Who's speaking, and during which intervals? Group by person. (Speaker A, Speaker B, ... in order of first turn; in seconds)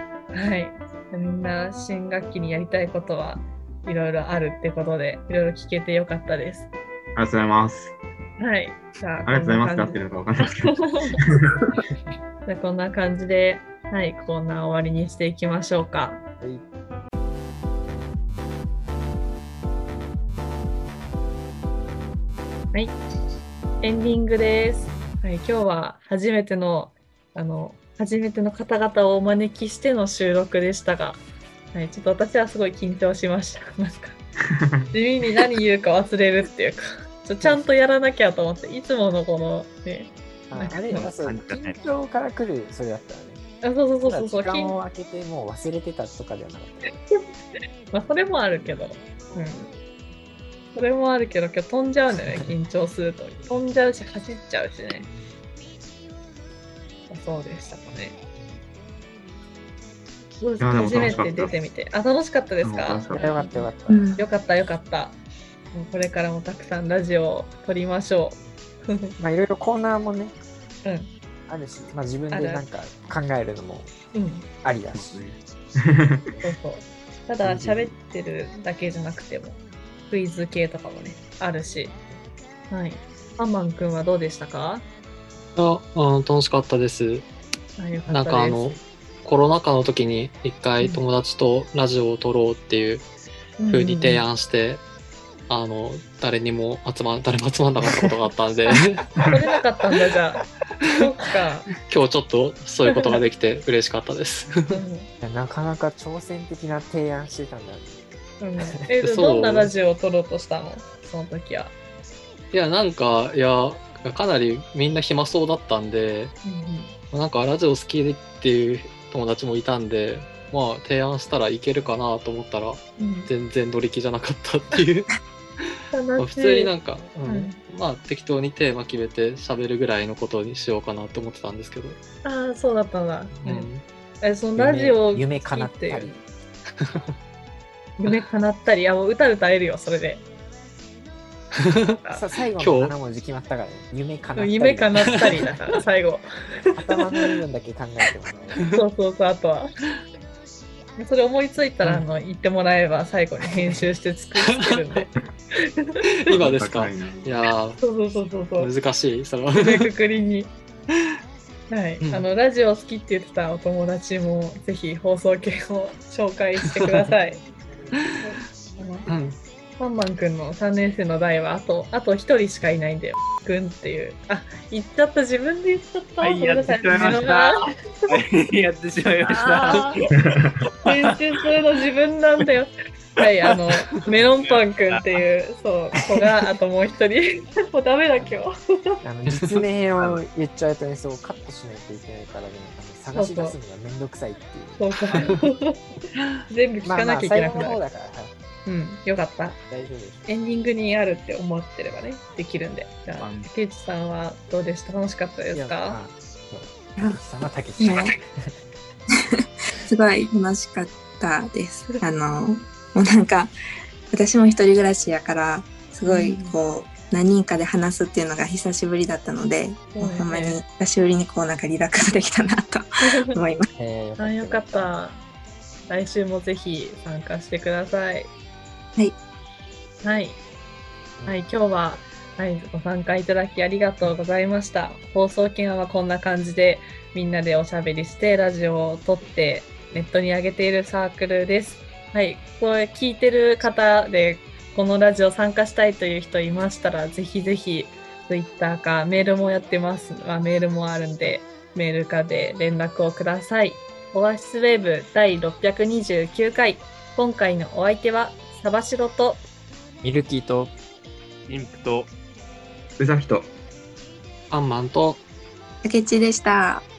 Speaker A: 0.3-6.7, 8.4-11.2, 12.4-16.2, 22.7-23.0, 23.8-31.2, 31.7-34.2, 34.9-41.1, 43.6-44.8, 46.9-49.7, 50.7-55.1, 57.1-58.2, 60.4-63.5, 64.2-65.2, 65.7-69.1, 70.8-71.1, 72.3-72.7, 74.1-74.5, 76.4-82.0, 82.7-84.8, 87.8-88.8, 93.6-94.2, 99.3-101.7, 102.9-103.2, 104.7-105.1, 108.4-111.7, 116.4-116.9, 123.0-123.3, 125.9-126.7, 127.2-127.6, 132.2-133.7, 134.2-136.2, 138.0-140.2, 144.3-147.3, 148.7-149.7, 151.0-155.1, 157.8-158.7, 159.5-160.5, 161.7-167.4, 168.2-169.1, 169.8-177.7, 179.2-180.0, 180.8-189.0, 193.1-193.6, 194.8-195.8, 196.5-197.8, 198.7-199.6, 200.3-206.0, 216.1-216.5, 219.9-220.6, 224.2-225.2, 225.9-228.3, 230.0-230.4, 231.3-259.4
Speaker B: 7.2-8.0, 9.2-11.7, 34.5-34.9, 60.6-61.6, 62.6-63.4, 74.9-76.3, 156.3-157.4, 263.0-263.5
Speaker C: 16.4-16.6, 40.5-43.4, 44.0-46.9, 63.1-64.1, 69.2-70.4, 71.5-73.9, 74.6-75.2, 77.4-77.9, 97.8-98.2, 105.2-108.0, 134.6-136.1, 142.1-145.5, 146.8-148.6, 189.0-195.3, 196.8-198.3, 199.7-200.3, 205.5-208.5, 223.8-224.9, 231.2-231.4, 260.0-260.7
Speaker D: 40.9-41.8, 176.2-181.4, 183.2-185.1, 203.2-203.5, 261.5-262.1
Speaker E: 63.9-64.3, 207.8-208.2, 209.4-213.5, 214.1-223.7, 265.8-266.9
Speaker F: 85.5-87.3, 88.1-93.1, 93.7-94.8, 95.5-99.1, 101.8-104.8, 109.0-109.7, 112.5-116.3, 117.1-125.2, 126.2-132.0, 133.3-133.8, 136.8-137.1, 141.6-142.0, 142.6-142.9, 154.6-155.0, 156.2-157.8, 158.6-159.9, 162.0-162.3, 166.6-167.1, 169.1-169.4, 264.5-265.2